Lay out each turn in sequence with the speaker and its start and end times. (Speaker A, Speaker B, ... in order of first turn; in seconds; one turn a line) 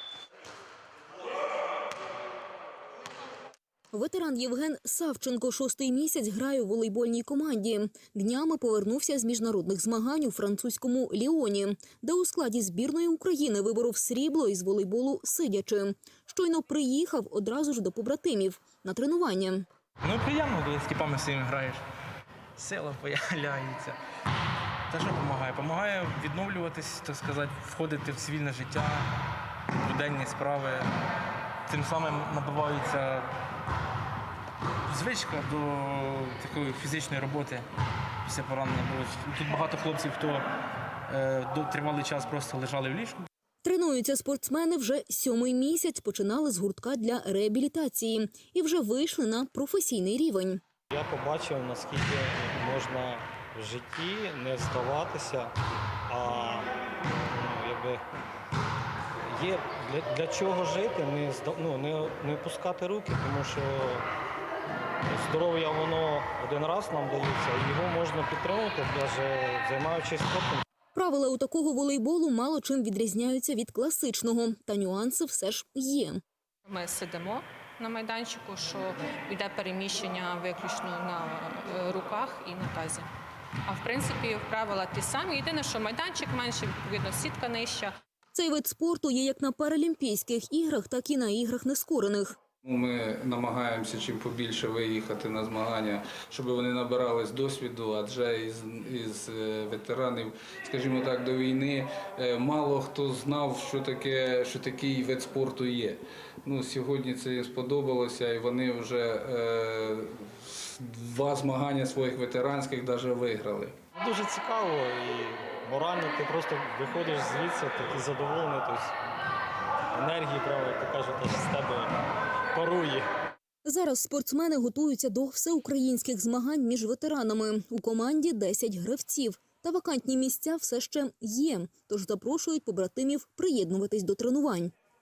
Speaker A: 3.9-19.6
Speaker B: 20.0-21.8
Speaker B: 22.6-24.0
Speaker B: 24.9-29.1
Speaker B: 29.8-30.9
Speaker B: 31.7-33.3
Speaker B: 34.9-37.6
Speaker B: 38.2-40.5
Speaker B: 41.1-43.3
Speaker A: 43.6-50.6
Speaker C: 50.9-55.5
Speaker C: 56.1-56.7
Speaker C: 57.3-58.0
Speaker C: 59.3-64.1
Speaker C: 65.1-70.6
Speaker A: 70.9-76.2
Speaker D: 76.7-83.1
Speaker D: 83.7-88.0
Speaker A: 88.3-92.4
Speaker E: 92.6-113.7
Speaker C: 114.0-118.9
Speaker C: 119.9-122.0
Speaker C: 122.5-123.1
Speaker A: 123.6-134.7